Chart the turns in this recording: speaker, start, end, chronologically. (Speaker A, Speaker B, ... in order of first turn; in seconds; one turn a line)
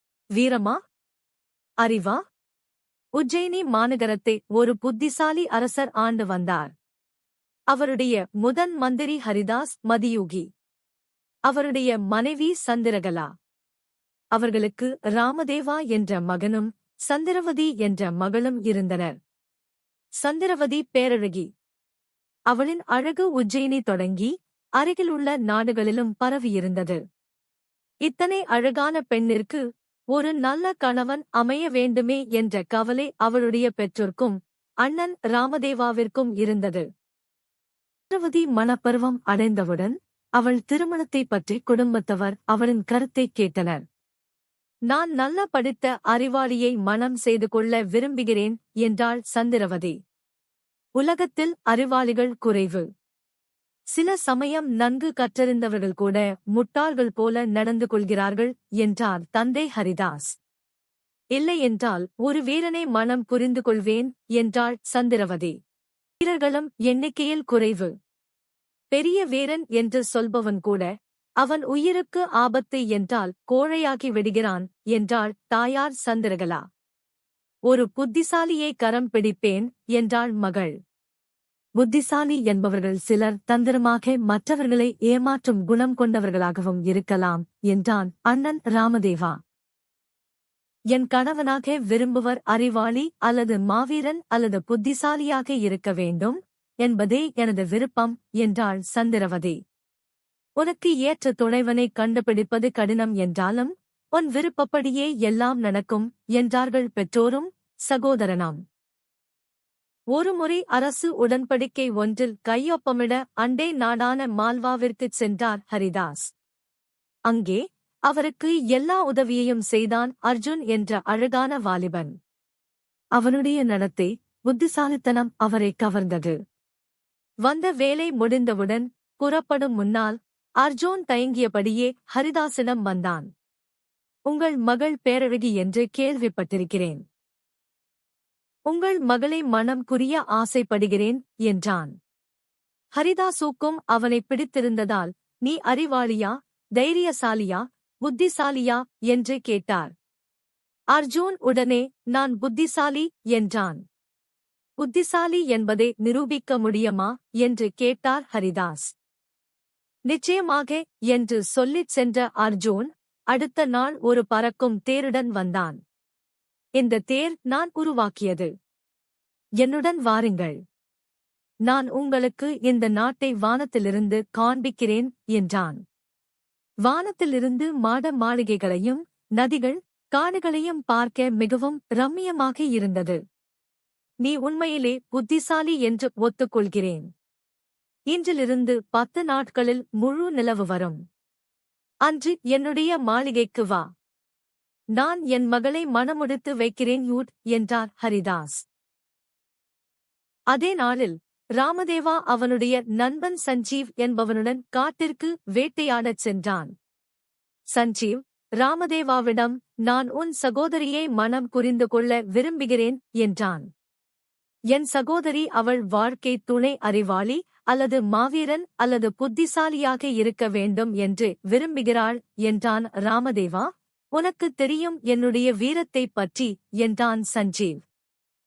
Speaker A: 0.3-0.8
Speaker A: 1.8-2.2
Speaker A: 3.2-6.7
Speaker A: 7.7-10.5
Speaker A: 11.5-13.3
Speaker A: 14.3-19.1
Speaker A: 20.2-21.5
Speaker A: 22.5-27.0
Speaker A: 28.0-36.9
Speaker A: 38.1-43.8
Speaker A: 44.9-50.0
Speaker A: 51.0-52.9
Speaker A: 53.9-60.3
Speaker A: 61.3-65.5
Speaker A: 66.2-67.9
Speaker A: 68.9-76.6
Speaker A: 77.7-80.7
Speaker A: 81.8-89.4
Speaker A: 90.9-99.6
Speaker A: 100.6-108.6
Speaker A: 110.1-116.3
Speaker A: 117.3-122.1
Speaker A: 123.2-126.4
Speaker A: 127.5-133.3
Speaker A: 134.3-137.0
Speaker A: 138.7-141.9
Speaker A: 142.9-149.9
Speaker A: 150.9-153.8
Speaker A: 154.8-158.9
Speaker A: 160.1-165.8
Speaker A: 166.8-168.5
Speaker A: 169.6-170.6
Speaker A: 171.7-175.8
Speaker A: 176.8-183.2
Speaker A: 184.2-187.1
Speaker A: 188.1-191.0
Speaker A: 192.1-193.9
Speaker A: 194.9-198.7
Speaker A: 200.5-206.7
Speaker A: 207.7-213.7
Speaker A: 214.7-227.8